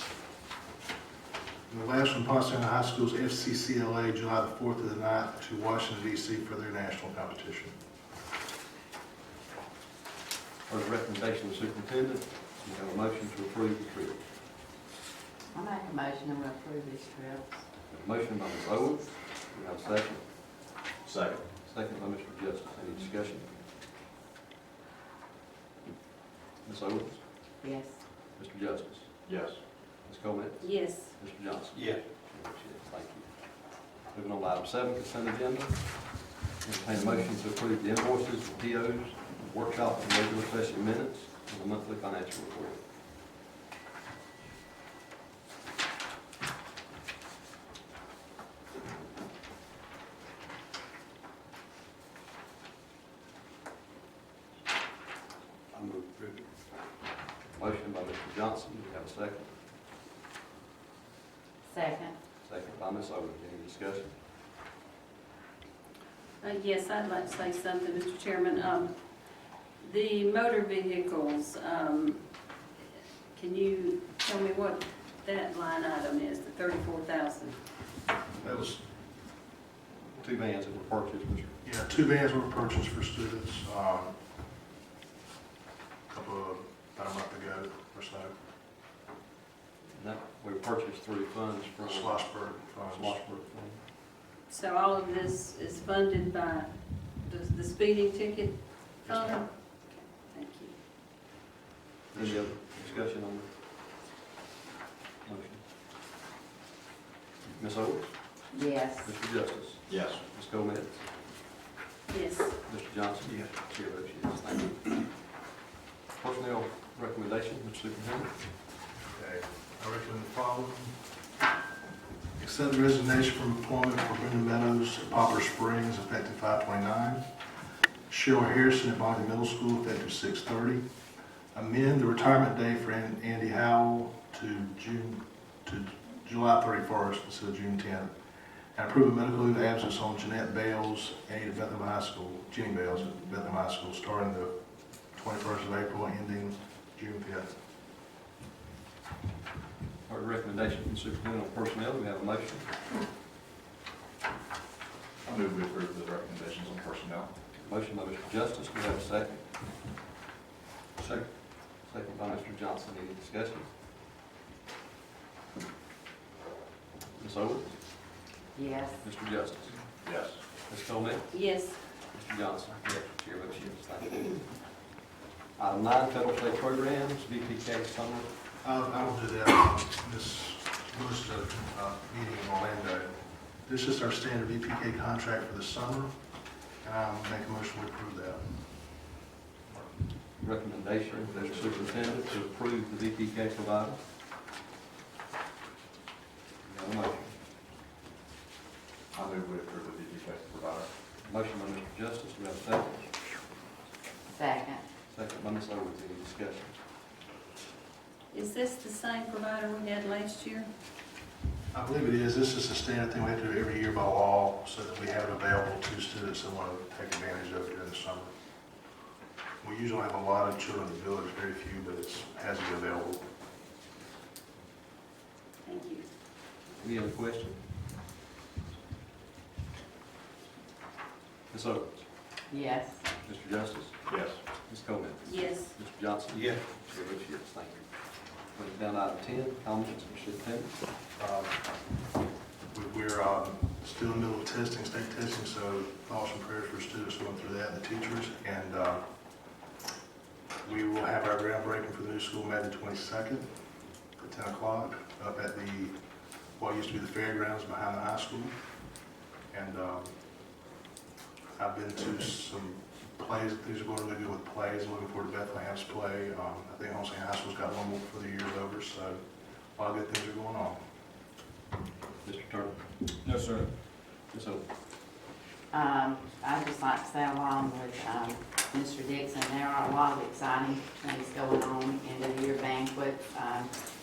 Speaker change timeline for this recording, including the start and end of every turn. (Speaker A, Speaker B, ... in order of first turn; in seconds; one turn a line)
Speaker A: 1.7-7.8
Speaker B: 10.7-14.2
Speaker C: 15.5-17.6
Speaker B: 17.9-20.2
Speaker D: 21.1-21.4
Speaker B: 21.6-23.5
Speaker B: 26.6-27.2
Speaker C: 27.6-28.0
Speaker B: 28.4-29.1
Speaker D: 29.2-29.6
Speaker B: 30.0-42.8
Speaker E: 30.6-31.2
Speaker B: 55.7-56.8
Speaker B: 57.5-59.5
Speaker C: 61.7-62.1
Speaker B: 62.4-64.1
Speaker E: 66.4-69.0
Speaker E: 69.8-72.2
Speaker E: 73.3-77.6
Speaker A: 78.4-78.8
Speaker B: 80.2-81.5
Speaker A: 81.6-84.2
Speaker A: 86.1-88.3
Speaker B: 89.9-93.8
Speaker A: 91.9-93.2
Speaker E: 94.5-100.7
Speaker B: 102.1-103.5
Speaker B: 105.2-105.6
Speaker B: 107.5-108.5
Speaker C: 108.5-109.1
Speaker B: 109.0-111.0
Speaker D: 109.9-110.2
Speaker E: 112.1-112.6
Speaker B: 112.6-115.1
Speaker B: 116.2-118.3
Speaker A: 119.1-120.9
Speaker A: 122.4-127.3
Speaker A: 128.1-130.8
Speaker A: 131.5-138.1
Speaker A: 138.8-144.6
Speaker A: 145.1-147.5
Speaker B: 150.1-152.7
Speaker D: 155.2-157.3
Speaker B: 157.6-159.4
Speaker B: 161.0-163.7
Speaker B: 167.2-167.7
Speaker C: 168.6-169.0
Speaker B: 169.0-169.8
Speaker D: 170.0-170.4
Speaker B: 170.7-171.4
Speaker E: 171.3-171.8
Speaker B: 172.0-174.4
Speaker B: 175.6-178.3
Speaker A: 178.6-186.2
Speaker A: 186.8-188.6
Speaker B: 190.4-194.0
Speaker A: 191.5-192.1
Speaker B: 196.6-197.3
Speaker D: 199.1-200.9
Speaker B: 201.2-203.1
Speaker C: 204.3-204.8
Speaker B: 205.1-206.8
Speaker E: 208.3-210.7
Speaker A: 211.7-218.3
Speaker A: 219.6-223.3
Speaker E: 225.7-226.1
Speaker B: 226.8-227.6
Speaker B: 231.5-232.1
Speaker C: 232.5-233.0
Speaker B: 233.2-234.1
Speaker D: 234.1-234.4
Speaker B: 234.7-237.9
Speaker E: 235.2-235.8
Speaker B: 238.4-240.8
Speaker A: 241.2-241.6
Speaker A: 242.7-249.1
Speaker A: 250.6-253.5
Speaker A: 254.2-256.0
Speaker A: 256.6-258.6
Speaker A: 259.5-260.1
Speaker A: 261.6-269.2
Speaker A: 269.8-270.8
Speaker B: 272.2-273.6
Speaker B: 274.3-274.6
Speaker C: 275.7-283.7